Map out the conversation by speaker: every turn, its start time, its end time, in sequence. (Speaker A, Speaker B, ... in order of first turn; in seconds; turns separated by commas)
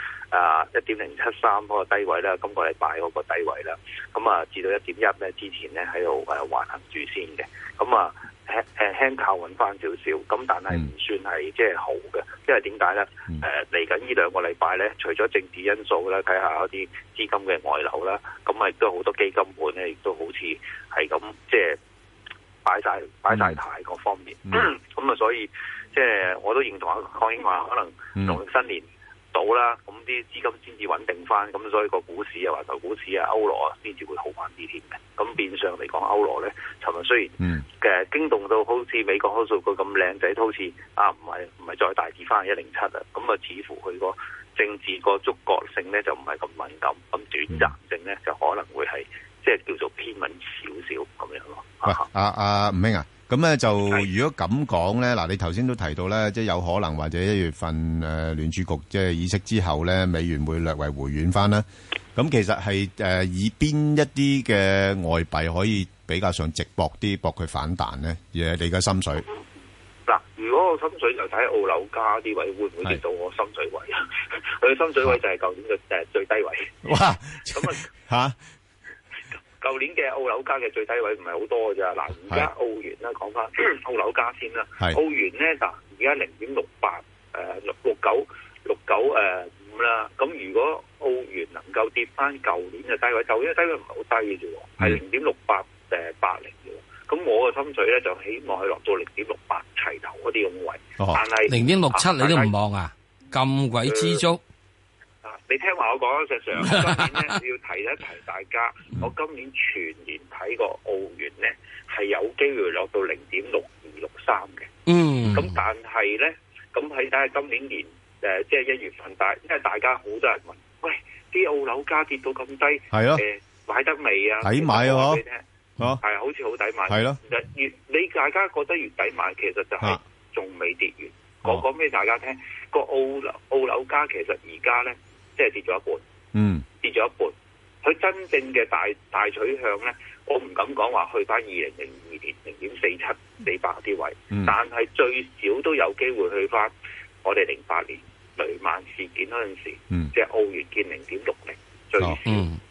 Speaker A: 0.3-21.8, Speaker A: 22.6-52.0, Speaker B: 23.3-23.6, Speaker B: 37.4-37.6, Speaker B: 51.8-61.6, Speaker B: 62.1-69.2, Speaker A: 70.1-74.0, Speaker A: 74.6-76.7, Speaker B: 76.8-78.3, Speaker A: 77.5-77.8, Speaker A: 79.6-102.5, Speaker C: 101.5-104.4, Speaker A: 103.8-104.2, Speaker A: 105.2-114.7, Speaker C: 114.9-115.5, Speaker A: 115.2-125.4, Speaker B: 122.9-123.2, Speaker B: 124.4-125.2, Speaker A: 126.0-136.0, Speaker B: 126.9-127.2, Speaker B: 136.3-136.6, Speaker A: 136.8-146.7, Speaker A: 147.2-152.4, Speaker C: 152.2-152.6